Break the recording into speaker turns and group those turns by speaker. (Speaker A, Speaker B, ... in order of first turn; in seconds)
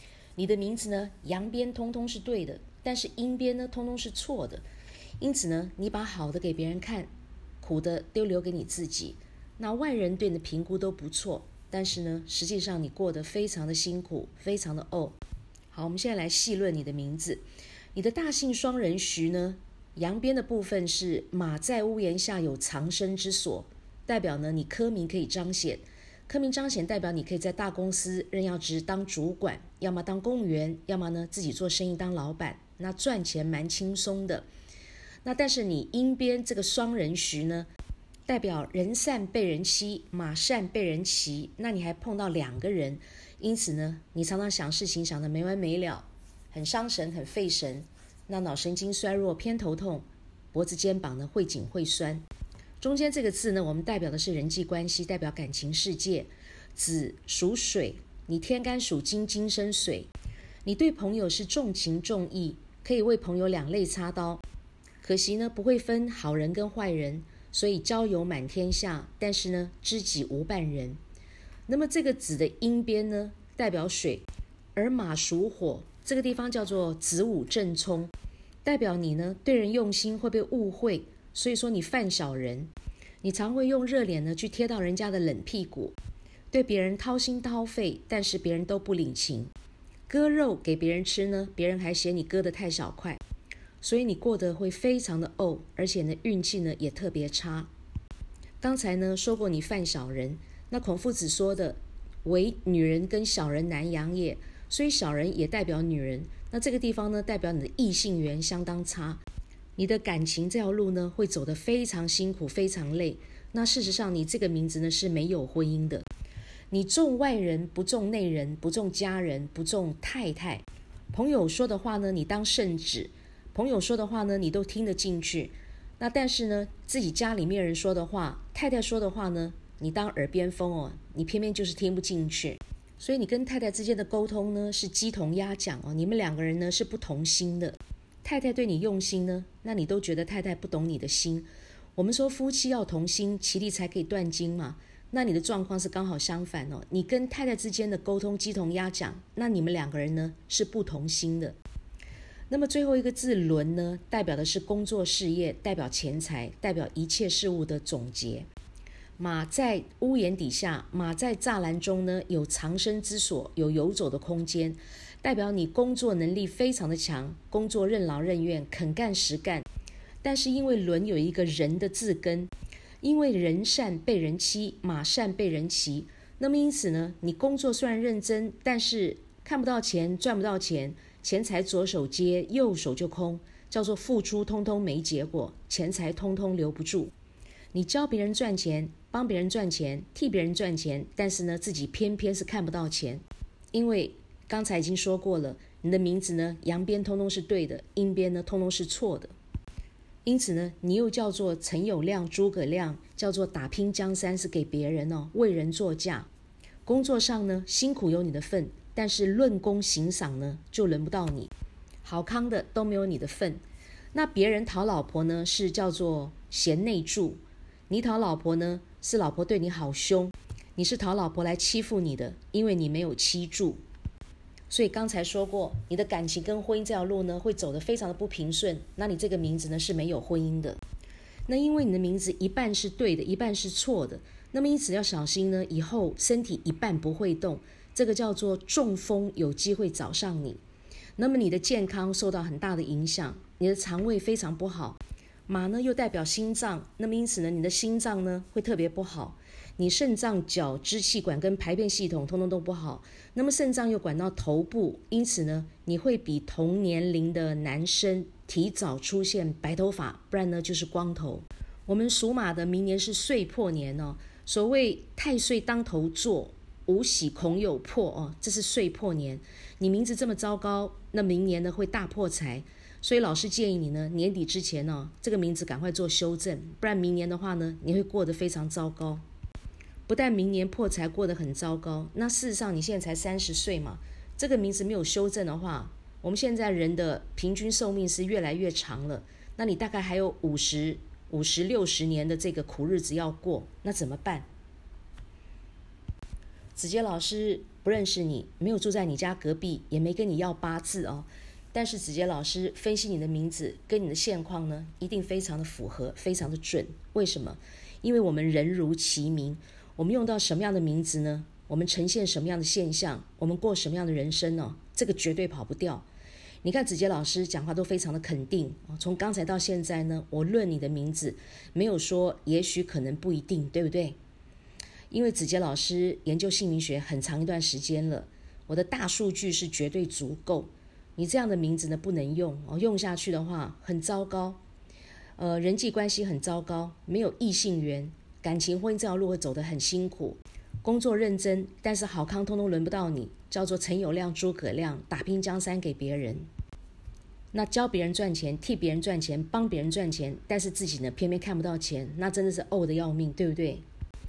Speaker A: 0.4-4.7, 5.2-7.1, 7.6-15.2, 15.7-17.4, 17.9-34.5, 35.2-37.7, 38.3-52.2, 52.8-60.1, 60.6-64.4, 65.0-71.0, 71.7-74.2, 74.8-78.1, 78.6-82.7, 83.2-85.9, 86.5-89.5, 90.1-93.2, 93.8-97.7, 98.6-109.2, 109.8-116.0, 116.7-151.6, 152.5-158.5, 159.2-169.6, 170.2-172.5, 173.0-187.1, 187.7-199.3, 200.2-206.3, 206.8-211.5, 212.0-213.6, 214.1-223.8, 224.7-230.8, 231.5-240.6, 241.2-279.2, 280.1-294.5, 296.8-316.1, 316.6-324.2, 325.1-334.6, 335.4-346.5, 347.5-353.8